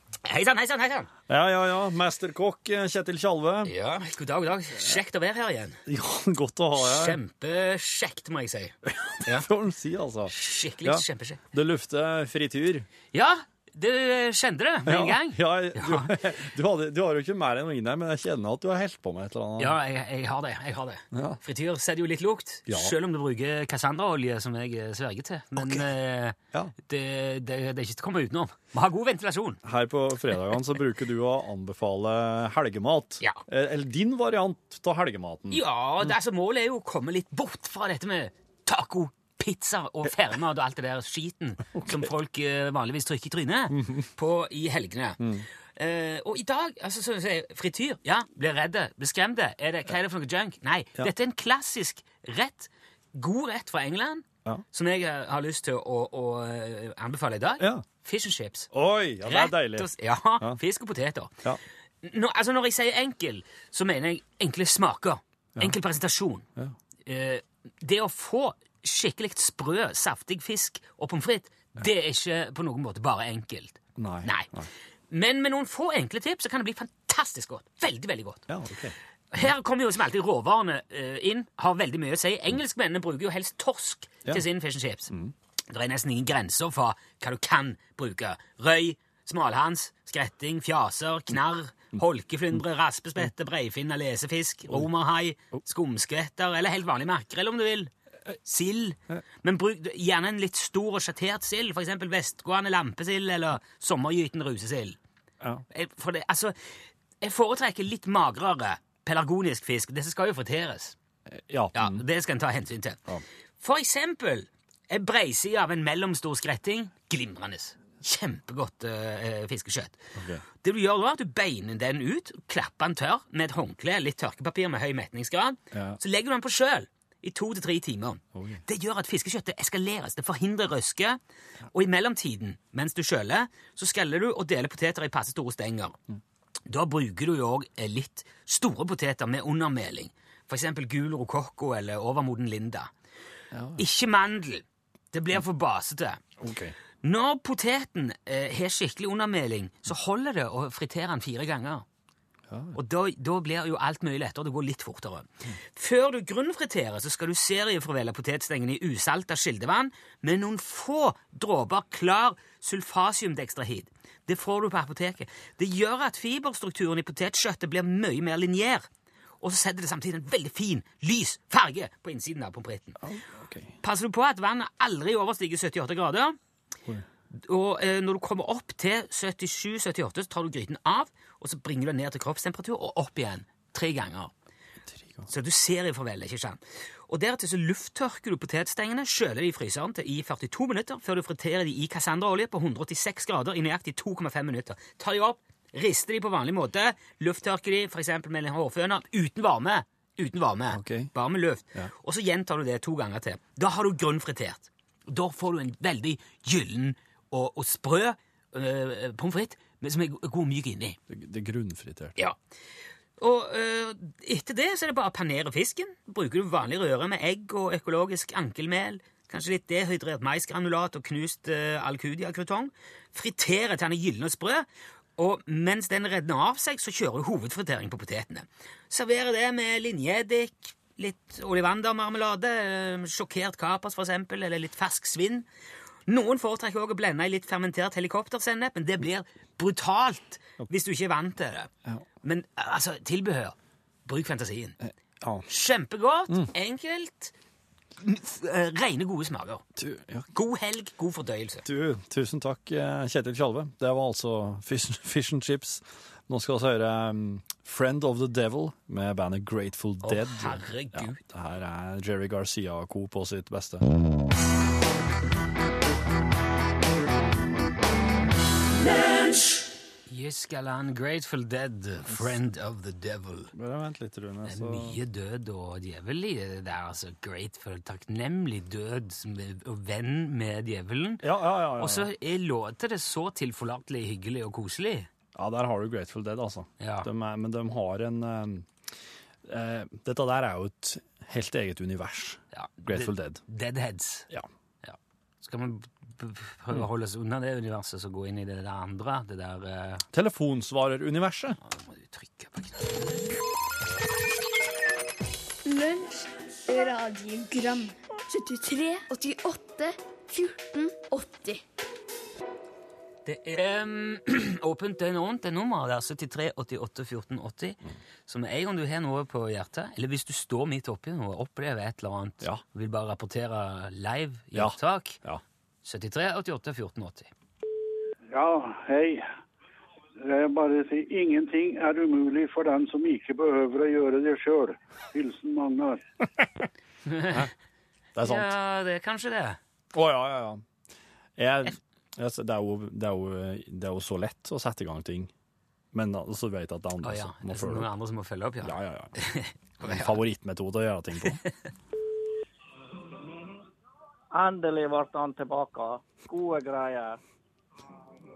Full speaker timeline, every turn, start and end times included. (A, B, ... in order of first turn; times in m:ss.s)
0:00.2-0:01.1 A
0:01.3-0:03.7 B
0:03.6-0:05.8 A
0:05.8-0:07.2 B
0:06.8-0:09.5 A
0:08.9-0:12.9 B
0:10.3-0:11.4 A
0:13.1-0:16.2 A
0:14.8-0:19.8 B
0:19.6-0:29.6 A
0:21.1-0:21.4 B
0:22.7-0:23.0 B
0:25.6-0:25.8 B
0:29.6-0:35.6 B
0:35.5-0:58.7 A
0:41.7-0:42.1 B
0:43.7-0:44.0 B
0:45.2-0:45.4 B
0:57.6-0:57.8 B
0:58.7-1:00.6 B
0:59.2-1:01.4 A
1:02.0-1:06.4 A
1:07.0-1:14.5 A
1:14.0-1:14.7 B
1:15.1-1:18.5 A
1:18.5-1:18.9 B
1:19.3-1:25.1 A
1:25.7-1:37.9 A
1:38.4-1:45.0 A
1:45.7-1:46.5 A
1:47.2-1:51.0 A
1:51.3-1:52.0 B
1:51.7-1:53.0 A
1:53.6-2:11.2 A
2:00.2-2:00.4 B
2:05.7-2:06.0 B
2:08.3-2:08.6 B
2:11.7-2:16.0 A
2:16.7-2:22.9 A
2:23.5-2:23.8 B
2:23.8-2:26.2 A
2:26.4-2:26.8 B
2:27.0-2:31.8 A
2:32.5-2:32.8 B
2:32.7-2:48.8 A
2:49.4-2:53.0 A
2:53.0-2:53.7 B
2:53.8-2:56.4 A
2:57.3-3:04.3 A
3:04.9-3:05.3 B
3:05.3-3:31.0 A
3:20.7-3:21.1 B
3:31.1-3:32.2 B
3:33.2-3:55.4 A
3:56.1-4:01.7 A
4:02.2-4:03.5 A
4:04.0-4:04.8 A
4:04.8-4:05.5 B
4:05.5-4:07.3 A
4:08.0-4:09.6 A
4:09.8-4:10.3 B
4:10.3-4:11.6 A
4:11.6-4:23.9 B
4:20.0-4:21.2 A
4:30.1-4:33.5 A
4:33.5-4:35.0 B
4:34.4-4:45.1 A
4:41.2-4:42.1 B
4:45.3-4:48.7 B
4:46.8-4:47.1 A
4:49.4-4:53.4 B
4:52.5-4:54.3 A
4:54.8-5:00.0 A
5:00.1-5:01.6 B
5:01.6-5:03.2 A
5:05.6-5:11.6 C
5:13.2-5:25.2 A
5:24.5-5:25.4 B
5:25.8-5:27.3 A
5:28.3-5:29.2 D
5:30.2-5:36.0 D
5:37.0-5:37.5 A
5:38.1-5:38.5 B
5:38.2-5:39.6 A
5:39.9-5:40.6 B
5:41.4-5:45.3 B
5:45.9-5:47.9 B
5:47.0-5:50.2 A
5:48.6-5:49.1 B
5:49.8-5:51.4 B
5:54.3-5:57.2 E